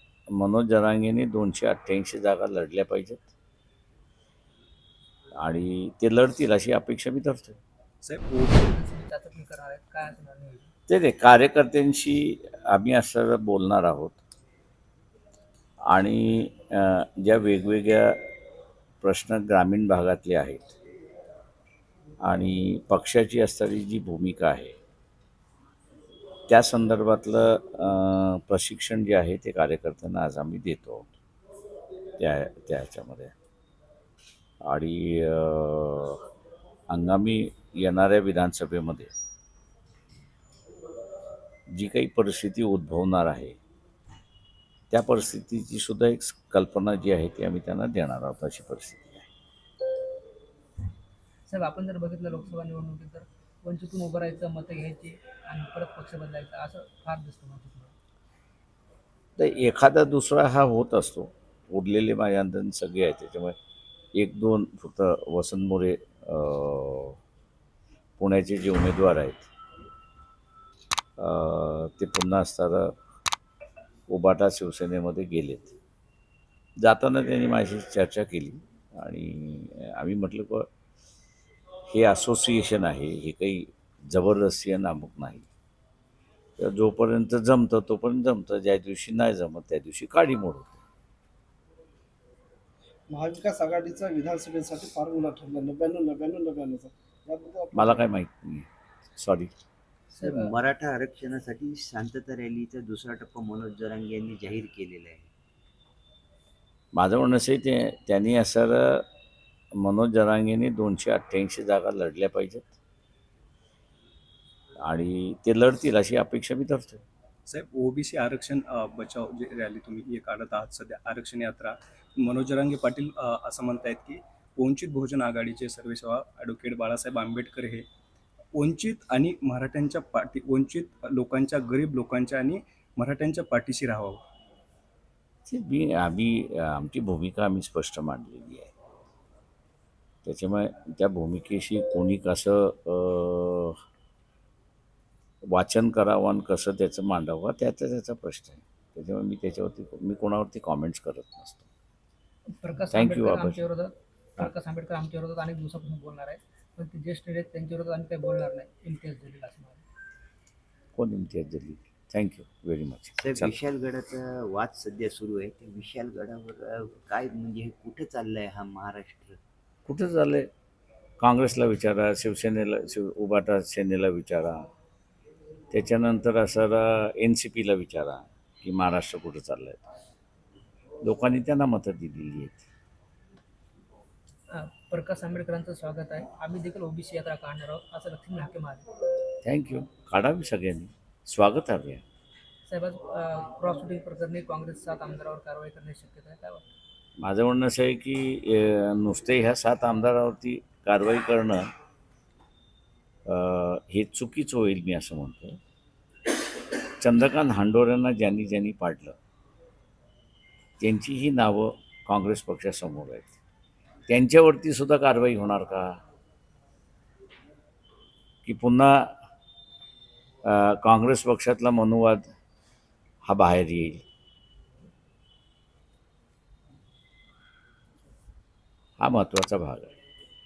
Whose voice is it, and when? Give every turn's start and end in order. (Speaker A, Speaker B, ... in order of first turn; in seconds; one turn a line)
Speaker A: 0.3-3.3
Speaker A: 5.4-7.6
Speaker B: 8.0-8.6
Speaker C: 8.5-10.7
Speaker A: 10.9-14.2
Speaker A: 15.9-18.2
Speaker A: 19.0-20.7
Speaker A: 22.2-24.8
Speaker A: 26.5-31.1
Speaker A: 32.2-33.3
Speaker A: 34.6-36.2
Speaker A: 36.9-39.1
Speaker A: 41.7-43.6
Speaker A: 44.9-49.3
Speaker C: 51.5-57.9
Speaker A: 59.4-63.6
Speaker A: 64.2-67.2
Speaker A: 68.2-69.5
Speaker A: 71.2-73.0
Speaker A: 74.1-75.8
Speaker A: 76.8-80.7
Speaker A: 81.9-85.5
Speaker A: 86.6-90.8
Speaker D: 93.1-98.0
Speaker A: 97.7-99.5
Speaker C: 100.2-100.5
Speaker E: 100.2-105.3
Speaker A: 107.0-109.1
Speaker A: 109.8-112.8
Speaker A: 114.8-117.0
Speaker B: 117.5-127.9
Speaker B: 128.6-134.2
Speaker A: 135.5-138.7
Speaker A: 140.2-143.8
Speaker A: 145.4-151.7
Speaker C: 152.5-159.8
Speaker A: 152.9-153.6
Speaker A: 160.9-163.6
Speaker E: 163.2-169.4
Speaker A: 169.9-170.5
Speaker A: 171.2-174.7
Speaker A: 175.7-179.8
Speaker A: 181.0-182.6
Speaker C: 184.5-188.8
Speaker A: 189.4-192.0
Speaker C: 192.7-196.7
Speaker A: 197.2-201.7
Speaker A: 203.3-205.6
Speaker A: 207.0-209.2
Speaker A: 210.8-213.4
Speaker A: 214.1-216.0
Speaker A: 218.4-219.1
Speaker A: 220.4-222.3
Speaker A: 223.3-224.1
Speaker A: 229.0-229.9